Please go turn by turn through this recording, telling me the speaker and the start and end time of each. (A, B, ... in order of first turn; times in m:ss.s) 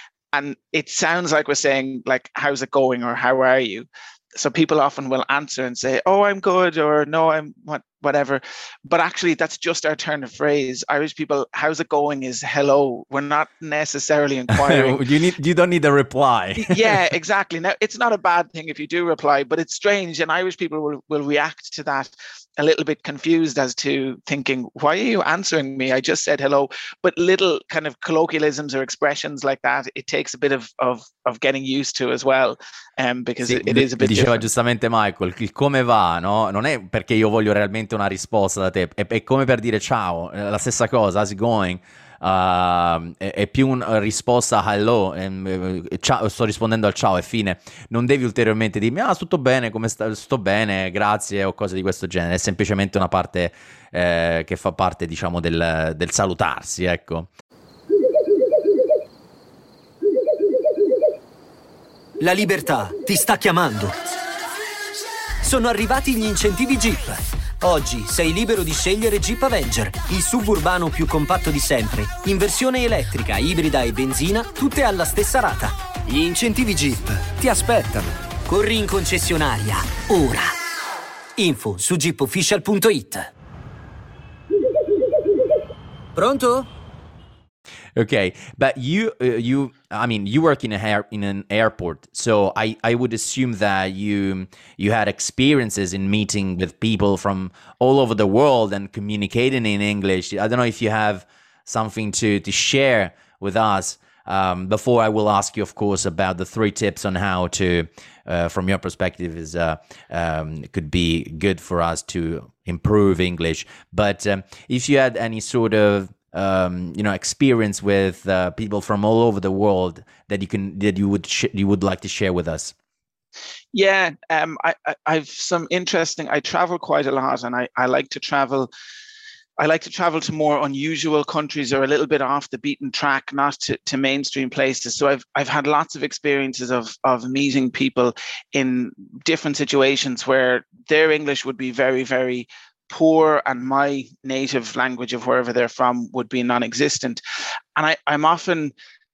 0:00.3-0:15.1 A
0:14.5-0:17.0 B
0:16.6-0:34.5 A
0:33.4-0:57.3 B
1:02.2-1:03.9 C
1:05.4-1:20.5 C
1:21.4-1:23.3 C
1:26.2-1:26.7 C
1:28.0-2:02.7 B
2:03.7-2:08.7 A
2:09.6-2:27.2 A
2:27.8-2:28.7 A